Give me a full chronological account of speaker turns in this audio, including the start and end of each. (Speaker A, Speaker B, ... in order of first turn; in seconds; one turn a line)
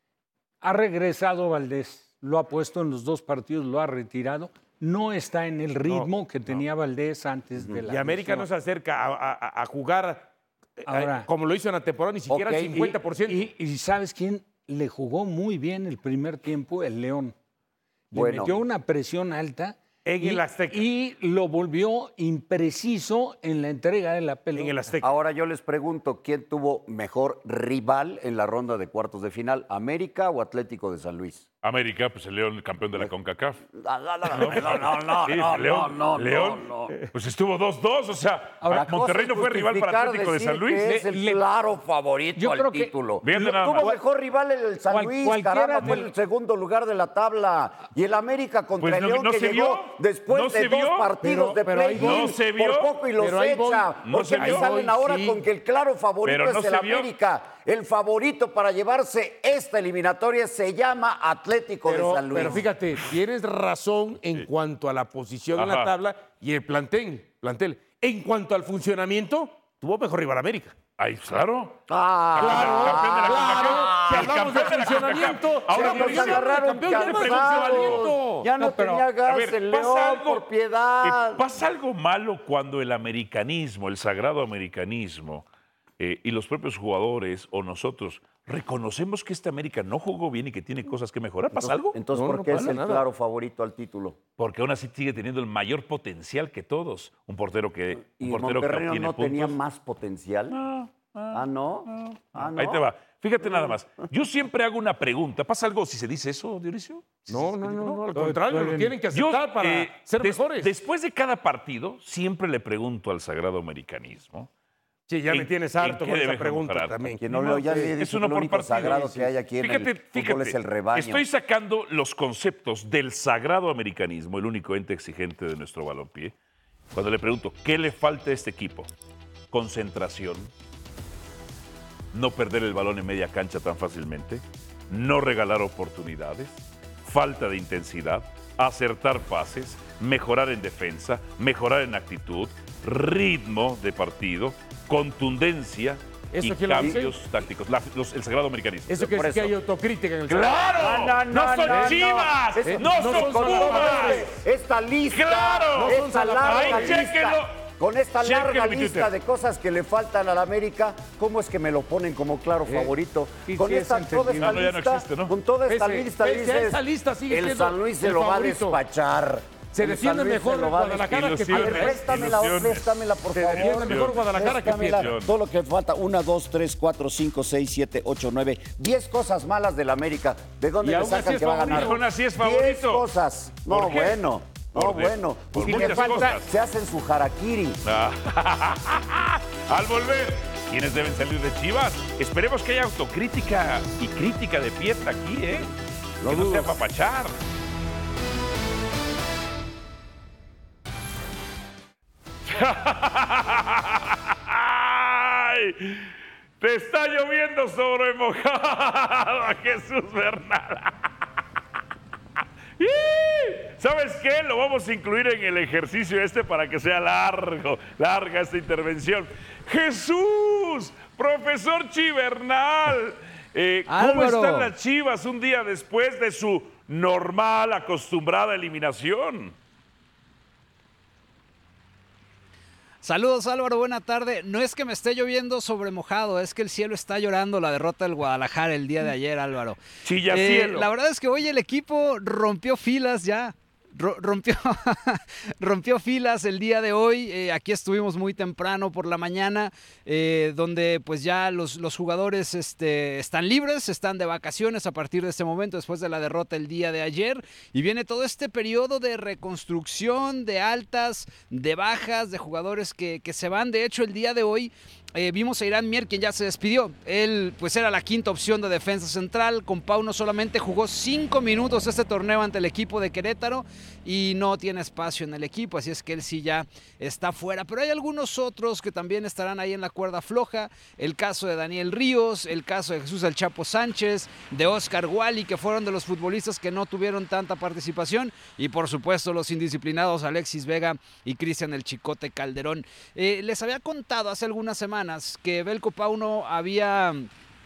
Speaker A: 0.6-8.5
Speaker B: 5.8-6.1
Speaker B: 7.8-13.5
Speaker A: 10.8-11.3
Speaker C: 12.3-13.0
Speaker A: 13.3-17.3
Speaker A: 18.1-24.8
Speaker C: 18.1-18.6
Speaker B: 20.0-20.8
Speaker B: 24.6-25.1
Speaker C: 25.0-31.4
Speaker D: 31.6-33.6
Speaker C: 33.7-36.9
Speaker D: 34.3-40.9
Speaker C: 38.6-62.6
Speaker A: 40.8-41.4
Speaker A: 42.4-44.0
Speaker D: 43.2-43.9
Speaker A: 44.9-46.1
Speaker D: 48.8-51.1
Speaker B: 51.2-52.4
Speaker D: 52.0-52.9
Speaker B: 53.2-55.4
Speaker D: 54.0-54.7
Speaker D: 56.2-57.1
Speaker B: 61.8-70.8
Speaker D: 65.5-65.9
Speaker D: 71.0-71.8
Speaker C: 71.9-74.4
Speaker D: 72.3-78.1
Speaker B: 72.3-78.5
Speaker C: 75.7-81.4
Speaker A: 78.6-79.0
Speaker D: 79.2-80.4
Speaker D: 81.0-85.5
Speaker D: 86.0-92.0
Speaker C: 91.5-94.2
Speaker B: 92.1-93.0
Speaker D: 94.4-99.5
Speaker C: 98.1-100.6
Speaker D: 100.5-108.0
Speaker C: 101.3-102.8
Speaker C: 103.5-103.7
Speaker B: 107.3-110.7
Speaker A: 108.1-109.0
Speaker D: 109.1-114.5
Speaker B: 115.1-117.9
Speaker D: 115.3-126.3
Speaker C: 117.2-121.2
Speaker B: 118.9-119.2
Speaker D: 126.9-128.9
Speaker D: 129.5-130.5
Speaker D: 132.1-149.2
Speaker B: 146.3-147.1
Speaker B: 148.9-150.8
Speaker C: 149.0-149.5
Speaker D: 150.3-154.3
Speaker C: 150.8-187.8
Speaker B: 151.6-152.0
Speaker B: 152.6-154.3
Speaker D: 155.1-157.5
Speaker B: 155.8-157.0
Speaker D: 158.2-159.1
Speaker B: 162.7-162.9
Speaker A: 163.5-164.7
Speaker D: 164.4-165.3
Speaker B: 165.7-168.8
Speaker B: 169.7-172.0
Speaker D: 171.1-174.2
Speaker B: 173.3-175.1
Speaker D: 174.9-175.3
Speaker B: 180.8-182.0
Speaker D: 181.6-183.0
Speaker D: 183.7-186.5
Speaker B: 185.7-186.1
Speaker D: 187.8-195.7
Speaker C: 196.2-196.8
Speaker D: 196.2-197.4
Speaker D: 202.4-211.1
Speaker D: 212.8-229.5
Speaker E: 223.9-224.7
Speaker E: 233.0-297.3
Speaker D: 240.0-240.9